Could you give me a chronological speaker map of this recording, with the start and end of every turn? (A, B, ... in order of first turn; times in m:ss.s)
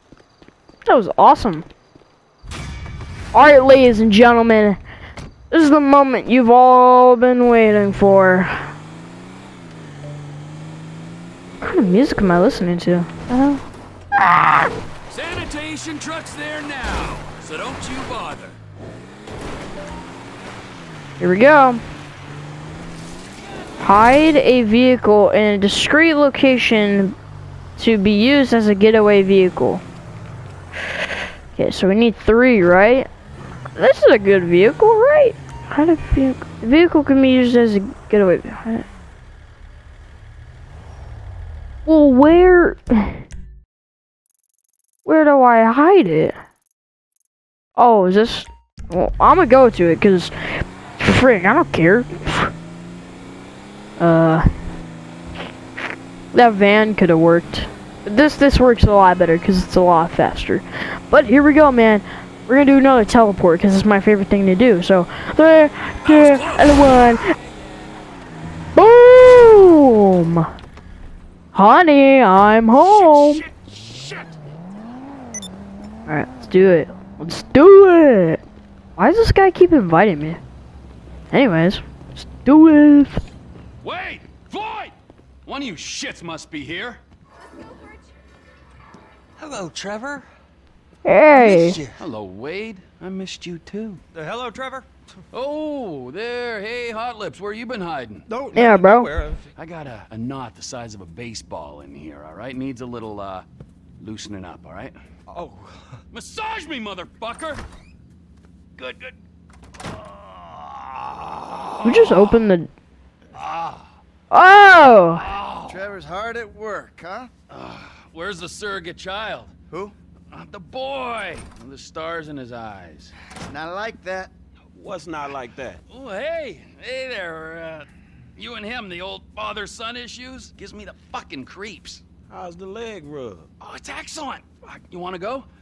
0:00.8-0:01.6 A
0:03.3-0:04.8 A
0:05.5-0:08.7 A
0:11.6-0:13.6 A
0:14.2-0:14.7 A
0:15.1-0:18.6 B
0:21.2-0:21.8 A
0:23.8-0:27.2 A
0:27.8-0:29.8 A
0:31.5-0:33.1 A
0:33.8-0:38.8 A
0:41.8-0:43.2 A
0:45.0-0:46.4 A
0:47.8-0:52.5 A
0:54.0-0:54.5 A
0:56.3-1:07.3 A
1:06.0-1:07.2 B
1:08.7-1:10.5 A
1:11.5-1:13.4 A
1:12.8-1:14.4 B
1:16.1-1:18.4 A
1:19.0-1:20.4 A
1:21.3-1:23.2 A
1:23.8-1:24.9 B
1:25.4-1:27.0 B
1:29.4-1:30.3 B
1:31.0-1:31.8 A
1:31.3-1:34.0 B
1:34.2-1:34.5 C
1:35.3-1:38.3 B
1:38.3-1:39.4 C
1:38.5-1:39.1 A
1:39.5-1:43.4 B
1:44.0-1:45.0 B
1:45.3-1:45.8 C
1:46.1-1:47.6 B
1:48.8-1:49.2 B
1:49.9-1:52.4 B
1:51.8-1:52.7 A
1:53.3-1:53.9 B
1:54.3-1:55.2 A
1:55.1-1:55.9 B
1:55.6-1:57.3 D
1:57.5-1:59.5 B
1:59.7-1:59.9 D
2:00.3-2:03.1 B
2:03.5-2:04.3 D
2:04.7-2:05.8 C
2:05.9-2:12.0 B
2:12.3-2:13.5 C
2:13.6-2:15.5 B